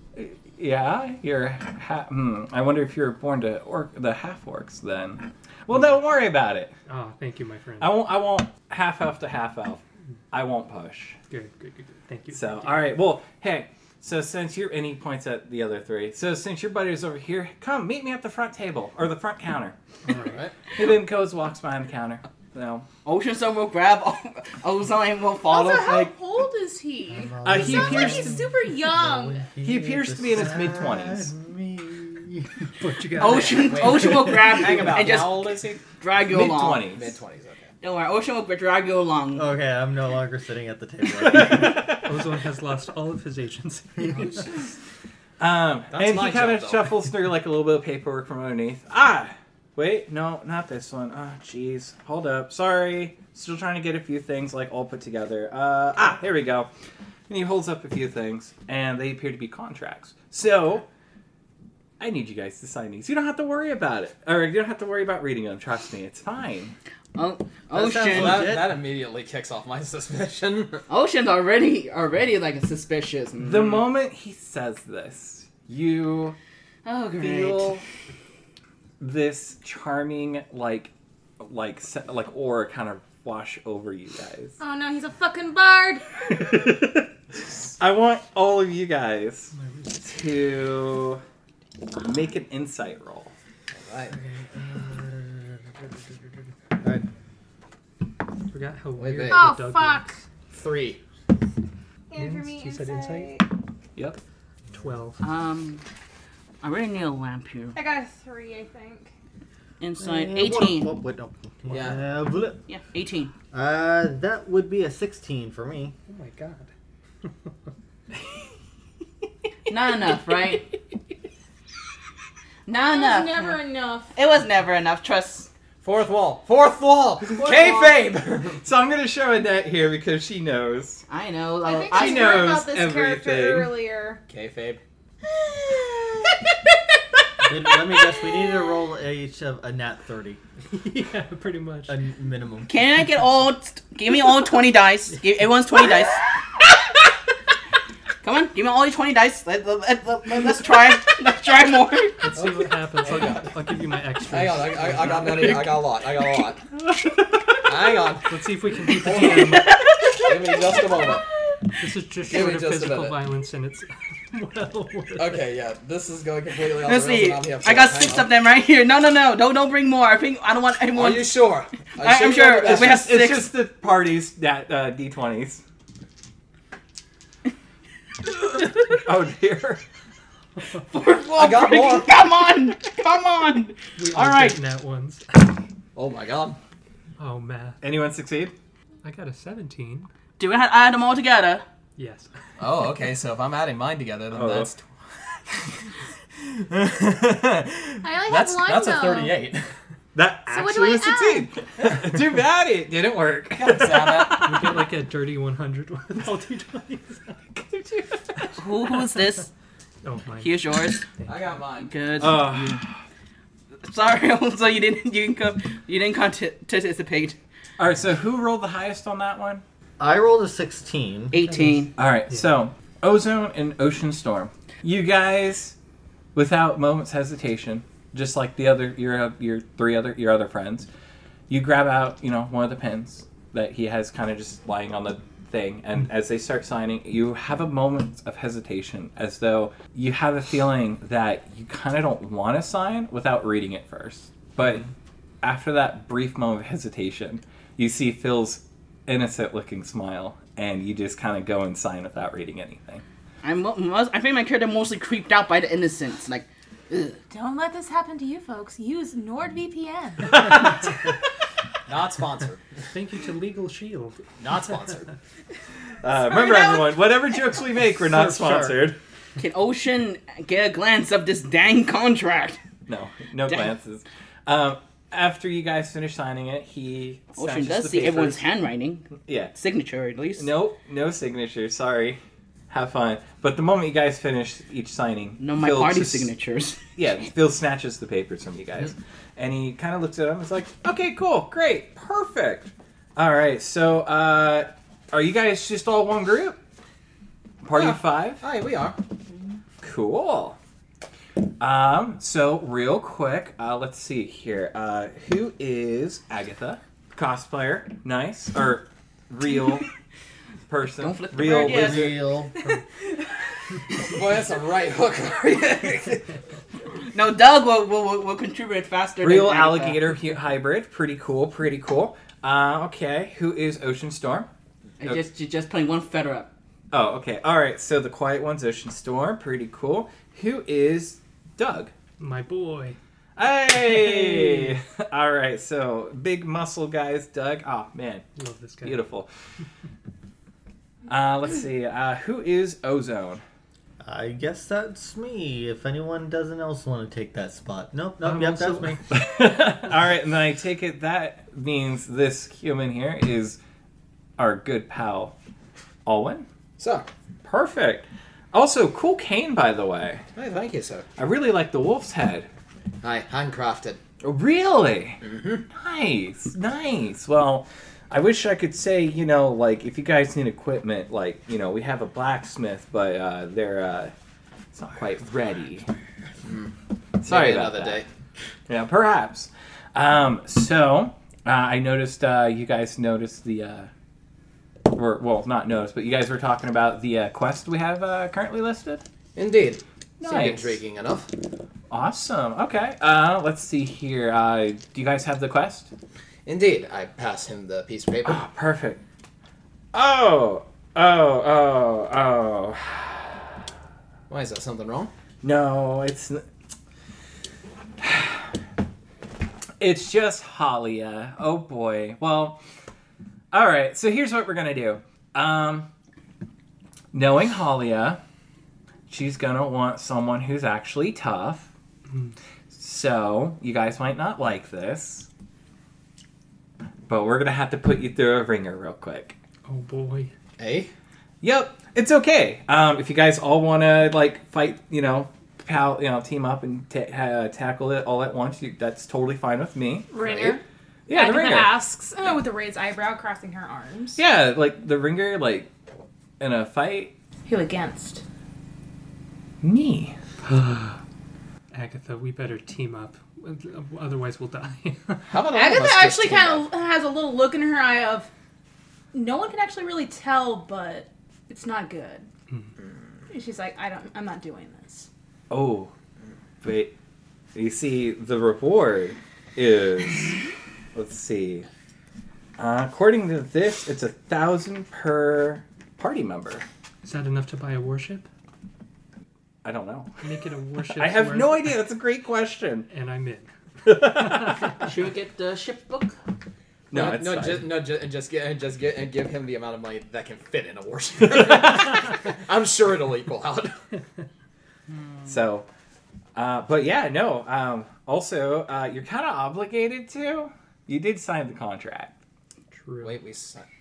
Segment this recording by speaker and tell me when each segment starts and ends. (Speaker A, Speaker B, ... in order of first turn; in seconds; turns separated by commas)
Speaker A: 0.1-6.7, Speaker B: 6.9-7.9, Speaker A: 7.8-11.2, Speaker B: 11.3-12.8, Speaker A: 12.3-19.7, Speaker B: 20.1-20.4, Speaker C: 20.1-20.5, Speaker A: 20.7-22.9, Speaker D: 23.0-26.1, Speaker E: 25.4-29.5, Speaker F: 27.1-32.5, Speaker A: 27.4-28.4, Speaker A: 29.6-31.3, Speaker B: 32.8-33.9, Speaker D: 33.2-36.9, Speaker C: 33.3-35.8, Speaker A: 36.3-37.2, Speaker C: 36.9-37.7, Speaker D: 37.8-39.5, Speaker F: 39.3-41.9, Speaker A: 41.2-42.0, Speaker B: 41.4-44.4, Speaker F: 44.0-44.3, Speaker C: 44.1-44.6, Speaker A: 45.4-56.7, Speaker C: 45.9-46.9, Speaker A: 57.3-60.9, Speaker A: 62.0-66.8, Speaker D: 67.1-68.5, Speaker F: 67.7-68.8, Speaker C: 68.1-70.8, Speaker D: 70.9-73.9, Speaker A: 73.4-76.4, Speaker D: 76.8-77.8, Speaker A: 77.2-77.8, Speaker A: 79.0-84.6, Speaker E: 84.6-86.4, Speaker A: 86.3-87.1, Speaker A: 87.8-91.2, Speaker B: 89.5-90.1, Speaker A: 92.0-93.3, Speaker C: 93.7-94.2, Speaker F: 94.5-95.5, Speaker F: 96.8-97.0, Speaker B: 98.5-100.1, Speaker C: 99.0-99.5, Speaker E: 99.3-100.2, Speaker C: 100.5-101.0, Speaker E: 102.1-103.5, Speaker B: 102.2-103.4, Speaker B: 104.7-105.2, Speaker D: 105.2-105.8, Speaker D: 106.6-107.8, Speaker E: 107.7-109.1, Speaker D: 109.8-111.0, Speaker F: 110.0-112.6, Speaker C: 111.7-112.0, Speaker D: 112.7-113.3, Speaker F: 113.5-115.9, Speaker B: 116.1-116.7, Speaker D: 119.7-120.8, Speaker D: 122.7-125.5, Speaker E: 122.8-124.1, Speaker C: 125.8-128.6, Speaker D: 127.4-127.9, Speaker A: 128.6-131.0, Speaker D: 131.1-132.5, Speaker E: 131.6-134.2, Speaker A: 131.9-133.7, Speaker C: 134.3-134.8, Speaker D: 135.3-136.3, Speaker F: 137.4-140.4, Speaker B: 140.7-142.0, Speaker F: 141.9-142.8, Speaker D: 142.7-146.2, Speaker D: 148.2-152.3, Speaker B: 152.2-155.8, Speaker C: 152.3-153.6, Speaker C: 154.2-156.6, Speaker C: 157.7-158.4, Speaker B: 158.3-159.8, Speaker D: 159.0-161.2, Speaker C: 159.0-159.6, Speaker C: 160.2-161.2, Speaker B: 161.8-165.4, Speaker C: 162.3-163.2, Speaker C: 165.2-168.3, Speaker D: 166.8-171.4, Speaker C: 170.9-173.1, Speaker D: 172.0-173.5, Speaker A: 172.6-175.6, Speaker A: 178.9-179.8, Speaker D: 180.9-184.6, Speaker C: 181.3-182.1, Speaker B: 184.0-185.5, Speaker C: 185.9-186.6, Speaker B: 187.2-187.8, Speaker A: 187.8-188.5, Speaker B: 189.0-190.1, Speaker D: 190.4-191.6, Speaker B: 191.9-192.3, Speaker C: 192.6-194.8, Speaker A: 194.3-194.8, Speaker C: 196.7-199.7, Speaker E: 198.0-199.4, Speaker A: 200.1-204.7, Speaker E: 200.5-201.5, Speaker C: 203.6-204.8, Speaker B: 204.4-207.4, Speaker A: 207.5-208.6, Speaker D: 208.6-209.5, Speaker B: 210.0-210.6, Speaker D: 210.4-211.1, Speaker C: 211.2-211.9, Speaker D: 211.8-212.8, Speaker A: 212.2-212.9, Speaker D: 213.8-217.4, Speaker A: 217.8-219.6, Speaker F: 220.0-221.3, Speaker D: 221.3-221.9, Speaker B: 221.4-222.5, Speaker A: 221.9-225.8, Speaker A: 226.3-230.9, Speaker A: 231.5-244.8, Speaker A: 245.4-253.0, Speaker D: 253.4-257.2, Speaker E: 257.3-260.6, Speaker A: 260.3-260.7, Speaker C: 261.9-262.7, Speaker B: 262.9-264.2, Speaker C: 264.4-265.1, Speaker A: 266.0-269.0, Speaker E: 266.2-266.9, Speaker F: 268.0-268.9, Speaker D: 269.4-272.6, Speaker A: 272.9-278.4, Speaker D: 277.4-280.5, Speaker A: 279.2-279.5, Speaker A: 280.4-286.3, Speaker D: 285.4-286.8, Speaker A: 286.9-296.6, Speaker A: 297.6-298.4, Speaker C: 297.7-299.0, Speaker A: 299.8-300.6, Speaker A: 301.6-309.9, Speaker A: 310.7-312.2, Speaker D: 311.0-312.3, Speaker F: 311.6-312.5, Speaker C: 313.9-316.3, Speaker D: 317.1-320.1, Speaker A: 319.2-324.5, Speaker D: 325.0-326.5, Speaker A: 326.9-331.9, Speaker B: 332.2-333.0, Speaker A: 333.4-338.2, Speaker B: 338.4-339.1, Speaker A: 338.8-339.3, Speaker A: 341.1-343.4, Speaker F: 344.0-349.0, Speaker B: 348.2-349.1, Speaker A: 349.1-353.6, Speaker A: 354.4-355.3, Speaker A: 356.0-356.5, Speaker C: 356.8-357.1, Speaker A: 357.4-360.2, Speaker C: 360.3-361.1, Speaker A: 361.2-362.5, Speaker C: 363.0-364.0, Speaker A: 364.2-374.1, Speaker C: 365.2-365.6, Speaker A: 374.7-375.9, Speaker C: 376.4-376.7, Speaker A: 377.2-378.0, Speaker C: 377.2-378.1, Speaker A: 378.7-383.9, Speaker A: 384.9-389.0, Speaker C: 389.4-391.3, Speaker A: 390.2-390.8, Speaker A: 391.9-395.9, Speaker C: 396.4-398.4, Speaker A: 398.2-399.0, Speaker A: 399.9-403.2, Speaker C: 404.3-405.1, Speaker A: 405.4-406.4, Speaker A: 408.0-408.4, Speaker A: 409.8-412.6, Speaker A: 413.5-415.9, Speaker A: 417.1-418.2, Speaker A: 419.1-421.7, Speaker B: 422.1-422.3, Speaker A: 422.7-425.3, Speaker A: 427.1-429.4, Speaker B: 429.6-430.3, Speaker C: 430.6-430.9, Speaker A: 431.4-440.1, Speaker E: 440.1-444.2, Speaker C: 440.2-440.6, Speaker A: 441.1-441.7, Speaker A: 444.2-445.7, Speaker A: 446.4-447.1, Speaker E: 447.5-448.2, Speaker A: 449.6-450.1, Speaker B: 450.5-451.0, Speaker B: 451.7-455.4, Speaker C: 455.3-456.7, Speaker E: 455.5-458.3, Speaker E: 459.1-462.3, Speaker E: 463.3-465.1, Speaker A: 465.5-465.9, Speaker A: 466.6-466.9, Speaker A: 467.5-470.4, Speaker A: 470.9-471.7, Speaker A: 472.6-476.6, Speaker B: 477.0-478.3, Speaker A: 479.6-480.2, Speaker B: 480.2-481.7, Speaker A: 480.9-482.9, Speaker B: 482.9-484.8, Speaker A: 483.9-484.7, Speaker D: 484.8-486.2, Speaker A: 486.9-487.7, Speaker C: 486.9-493.8, Speaker A: 495.2-495.7, Speaker A: 496.4-502.2, Speaker B: 502.7-503.2, Speaker C: 503.0-503.6